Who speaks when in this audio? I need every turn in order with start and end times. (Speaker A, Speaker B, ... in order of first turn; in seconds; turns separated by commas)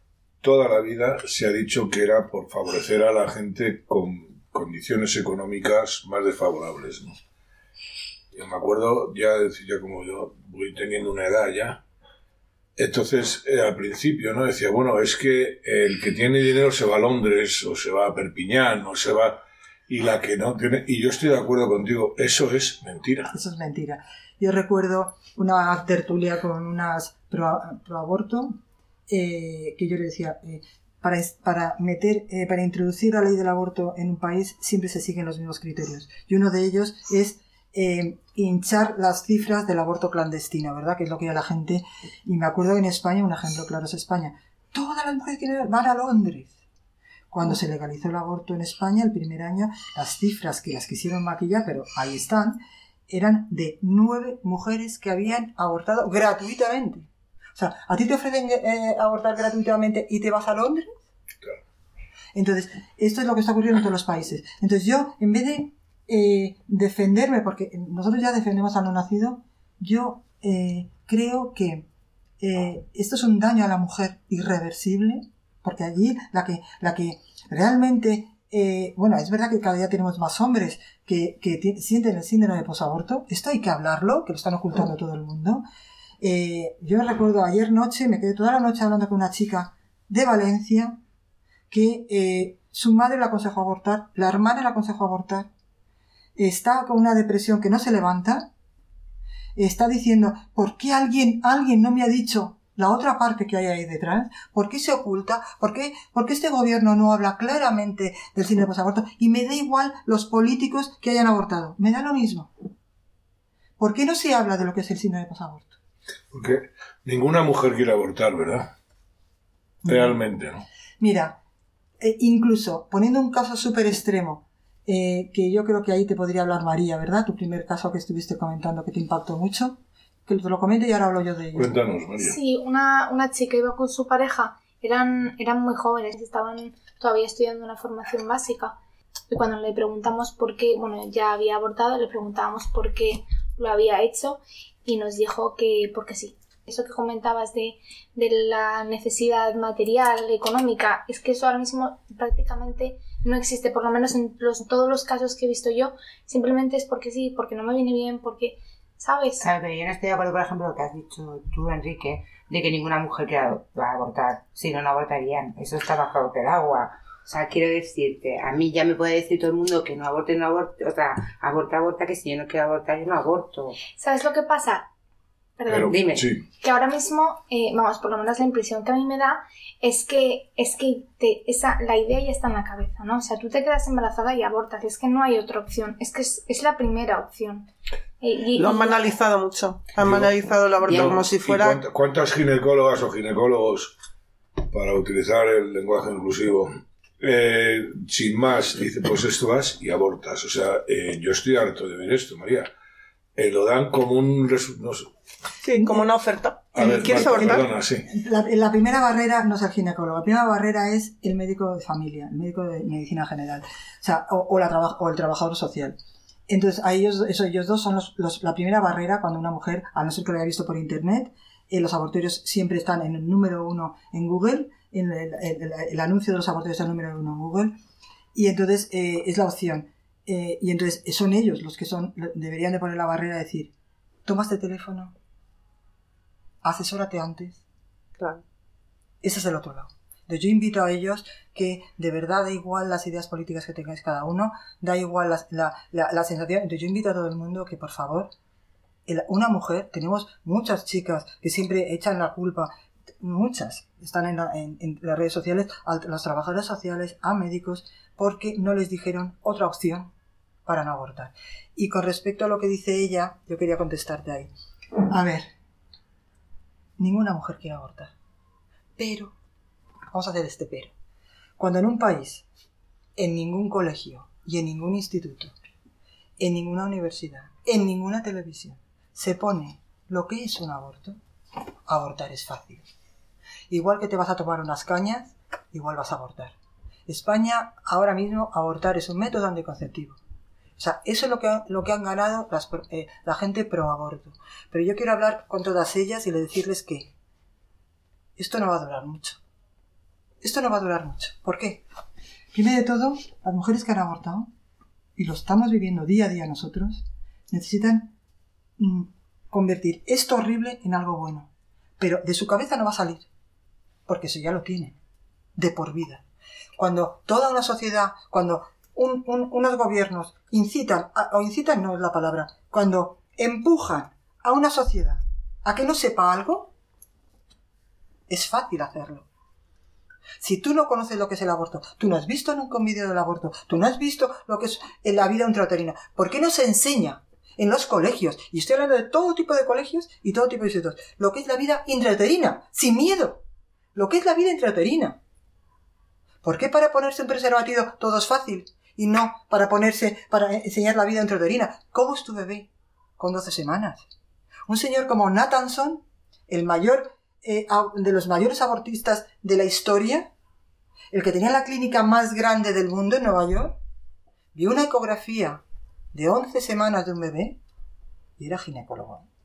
Speaker A: 0.4-7.2, Speaker A: 8.3-11.8, Speaker A: 12.8-23.3, Speaker B: 23.3-46.6, Speaker B: 47.3-60.9, Speaker B: 62.3-71.9, Speaker B: 72.4-85.6, Speaker B: 86.2-91.0, Speaker B: 91.7-95.5, Speaker B: 96.3-98.5, Speaker B: 99.5-112.5, Speaker B: 113.8-115.8, Speaker A: 116.3-118.7, Speaker B: 119.8-120.2, Speaker A: 119.8-120.6, Speaker B: 121.0-121.4, Speaker B: 122.0-131.7, Speaker A: 131.5-132.3, Speaker C: 132.2-138.8, Speaker C: 139.3-159.4, Speaker D: 159.4-173.8, Speaker C: 173.9-174.9, Speaker C: 175.6-175.9, Speaker A: 175.7-176.4, Speaker D: 175.9-176.2, Speaker C: 176.6-187.7, Speaker C: 188.2-189.1, Speaker E: 188.5-191.8, Speaker A: 190.0-190.3, Speaker A: 190.8-193.9, Speaker A: 194.7-202.7, Speaker A: 203.3-205.1, Speaker E: 205.6-207.7, Speaker A: 206.7-208.1, Speaker B: 208.1-227.8, Speaker B: 228.3-233.7, Speaker B: 234.2-235.1, Speaker B: 236.6-237.6, Speaker B: 239.2-248.3, Speaker B: 249.1-260.1, Speaker B: 260.6-264.5, Speaker B: 265.1-265.5, Speaker B: 267.0-268.1, Speaker B: 269.0-269.3, Speaker B: 270.1-270.9, Speaker B: 271.6-272.4, Speaker B: 273.2-275.5, Speaker B: 276.4-281.2, Speaker B: 281.9-282.9, Speaker B: 283.7-290.2, Speaker B: 290.8-297.1, Speaker B: 298.4-299.4, Speaker B: 300.4-301.9, Speaker B: 302.5-304.5, Speaker B: 305.1-308.1, Speaker B: 308.8-313.3, Speaker B: 314.1-315.0, Speaker B: 315.6-316.2, Speaker B: 316.8-326.7, Speaker B: 328.3-329.3, Speaker B: 330.4-343.4, Speaker B: 343.9-345.2, Speaker B: 346.4-354.1, Speaker B: 354.7-360.3, Speaker B: 361.1-363.8, Speaker B: 364.5-367.6, Speaker B: 368.4-369.3